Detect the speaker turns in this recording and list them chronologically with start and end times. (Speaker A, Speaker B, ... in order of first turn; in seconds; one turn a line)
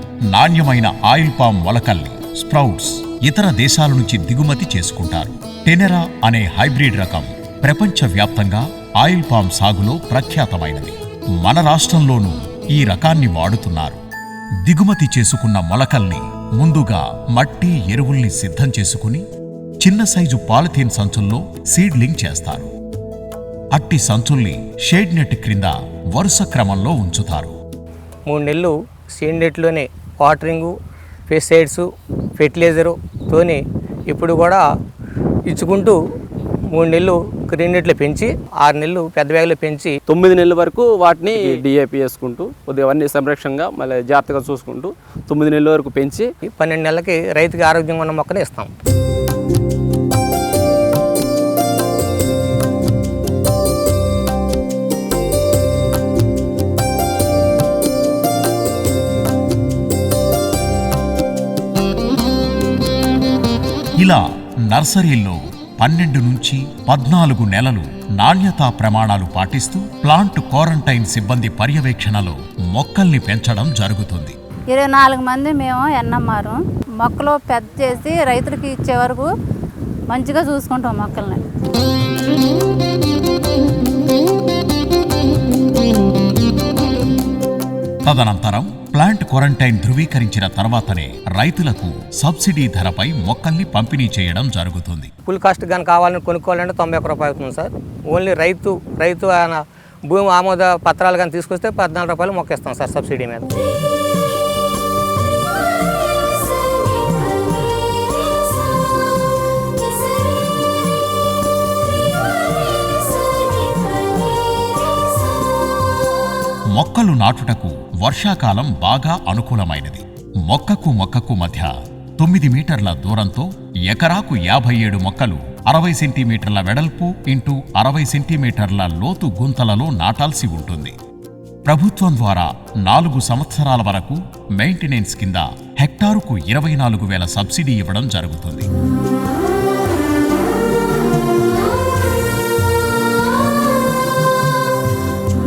Speaker A: 0.3-14.0
Speaker A: 14.7-19.2
Speaker A: 19.8-22.7
Speaker A: 23.7-27.6
Speaker B: 28.3-30.7
Speaker B: 31.3-31.9
Speaker B: 32.4-34.6
Speaker B: 35.5-36.0
Speaker B: 36.7-39.9
Speaker C: 40.1-46.3
Speaker B: 46.6-48.7
Speaker A: 64.0-74.4
Speaker D: 74.7-79.3
Speaker D: 80.1-81.4
Speaker A: 88.1-95.1
Speaker B: 95.3-103.5
Speaker A: 116.8-130.9
Speaker A: 131.7-138.7